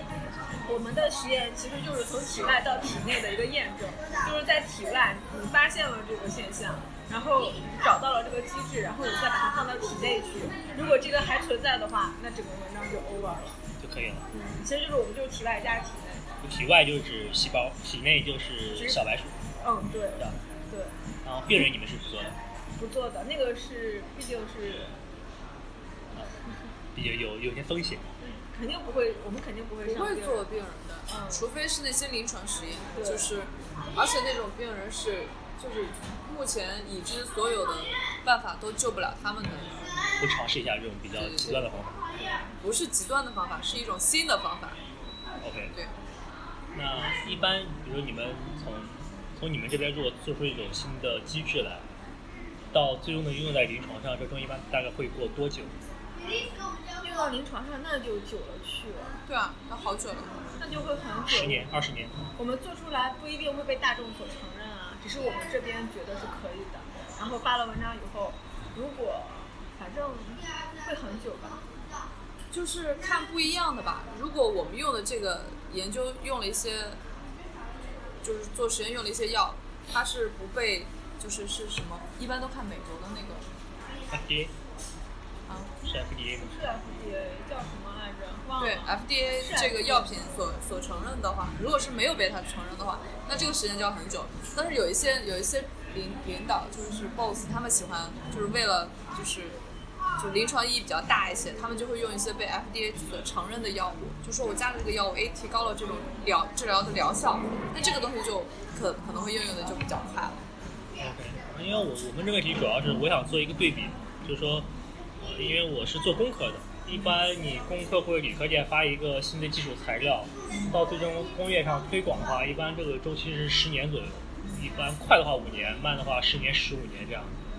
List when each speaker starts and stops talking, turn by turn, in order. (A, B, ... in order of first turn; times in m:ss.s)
0:00.2-0:00.6 A
0:00.6-0:13.6 B
0:13.8-0:14.3 A
0:14.3-0:16.3 B
0:16.4-0:19.4 A
0:18.7-0:19.0 B
0:19.6-0:21.0 B
0:21.2-0:22.4 A
0:22.8-0:25.0 B
0:26.9-0:28.1 A
0:28.2-0:30.5 B
0:29.9-0:39.9 C
0:31.1-0:31.4 B
0:32.9-0:33.3 B
0:40.2-0:42.4 A
0:41.1-0:41.7 C
0:42.6-0:44.8 C
0:45.4-0:45.7 A
0:46.7-0:51.9 A
0:52.7-0:55.7 A
0:56.9-0:59.2 B
0:59.3-1:00.6 C
1:00.6-1:01.7 B
1:01.3-1:02.2 A
1:02.4-1:11.7 B
1:12.5-1:17.0 C
1:18.2-1:23.5 C
1:24.1-1:24.5 A
1:25.5-1:25.7 C
1:25.8-1:26.6 A
1:26.4-1:30.2 B
1:28.6-1:39.6 C
1:40.2-1:50.4 C
1:51.0-1:54.7 A
1:55.2-2:07.4 A